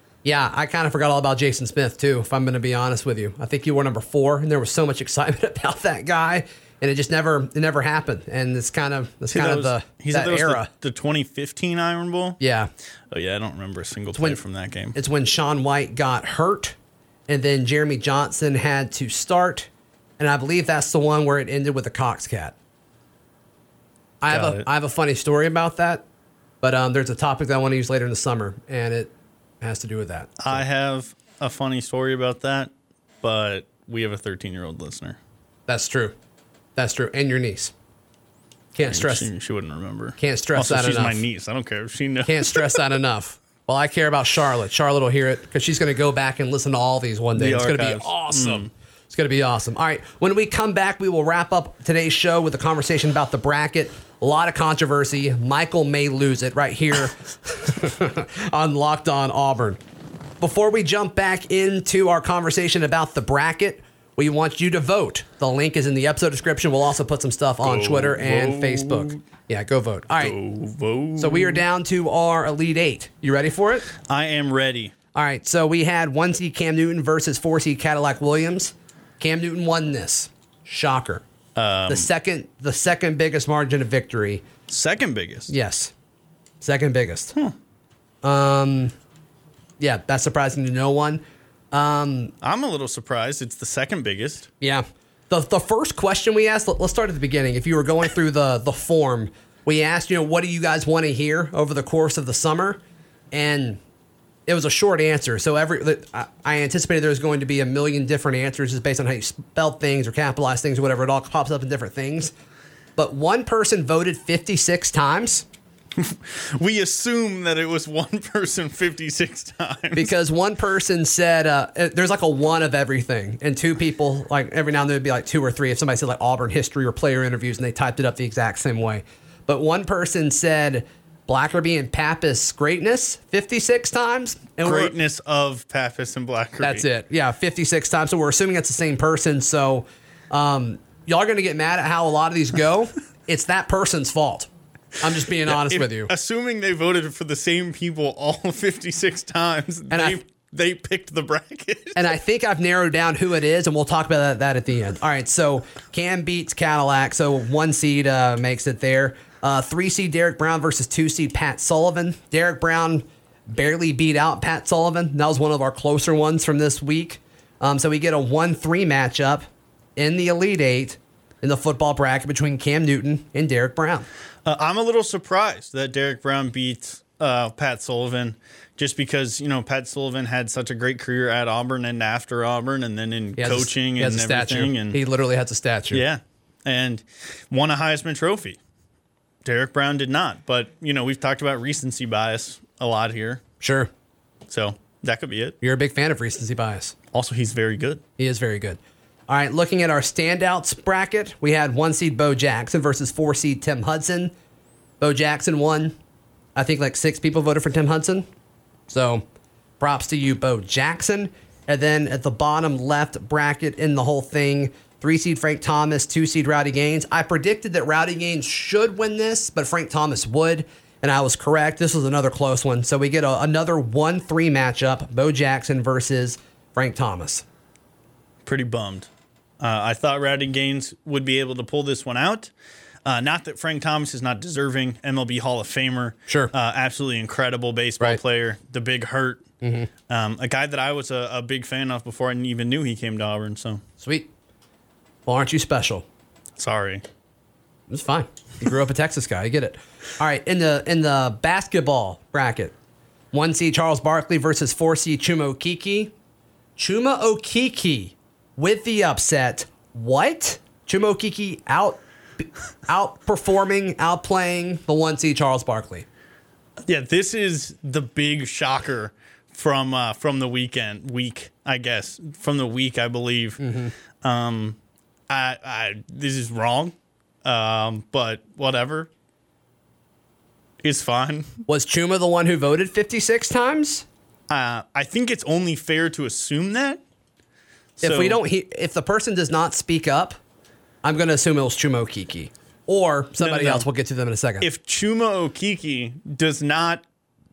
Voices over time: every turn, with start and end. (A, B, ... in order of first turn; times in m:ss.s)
0:00.2-0:10.7 A
0:09.3-0:12.4 B
0:12.4-0:12.7 A
0:13.1-0:15.0 B
0:14.9-0:16.8 A
0:17.3-0:22.6 A
0:24.2-0:26.0 A
0:24.3-0:24.7 B
0:26.6-0:30.6 A
0:30.4-0:32.7 B
0:33.2-0:35.2 B
0:35.7-0:36.2 A
0:36.8-0:37.7 A
0:38.7-0:39.3 A
0:38.9-0:42.8 B
0:40.2-0:41.2 A
0:42.2-0:59.8 A
0:47.4-0:48.7 B
1:00.4-1:10.4 A
1:07.6-1:09.2 B
1:10.2-1:11.6 B
1:11.2-1:13.9 A
1:14.1-1:14.9 B
1:15.2-1:21.2 A
1:21.6-1:22.1 B
1:21.9-1:24.5 A
1:24.7-1:25.5 B
1:25.5-1:25.9 A
1:26.6-1:27.3 A
1:28.2-1:29.0 A
1:29.8-1:32.3 A
1:32.4-1:34.5 B
1:34.6-1:42.8 A
1:43.3-1:43.8 A
1:44.5-1:52.3 A
1:53.0-1:55.5 A
1:56.0-2:00.1 B
1:59.9-2:14.9 A
2:14.6-2:16.8 B
2:16.6-2:24.5 A
2:25.0-2:26.1 A
2:25.5-2:32.1 B
2:29.9-2:30.2 A
2:32.0-2:54.1 A
2:54.5-3:05.0 B
3:03.4-3:06.0 A
3:05.9-3:08.6 B
3:09.4-3:13.4 B
3:13.6-3:13.9 A
3:14.5-3:15.6 B
3:15.6-3:17.0 A
3:17.1-3:18.0 B
3:18.2-3:24.3 A
3:25.0-3:26.0 A
3:26.6-3:28.3 A
3:28.9-3:29.2 A
3:29.8-3:47.4 A
3:48.4-3:49.1 B
3:49.6-3:52.5 B
3:53.0-3:59.4 B
3:59.6-3:59.9 A
4:00.1-4:03.8 B
4:04.0-4:04.3 A
4:05.3-4:06.0 A
4:06.6-4:07.0 B
4:07.9-4:12.7 A
4:13.3-4:16.1 A
4:16.8-4:26.1 A
4:26.9-4:33.6 B
4:33.6-4:33.9 A
4:34.2-4:34.8 B
4:35.3-4:39.1 B
4:40.8-4:41.6 B
4:41.7-4:44.1 A
4:44.5-4:47.0 B
4:48.0-4:48.4 B
4:48.0-4:50.4 A
4:51.0-4:54.7 A
4:53.4-4:53.9 B
4:54.6-4:57.0 B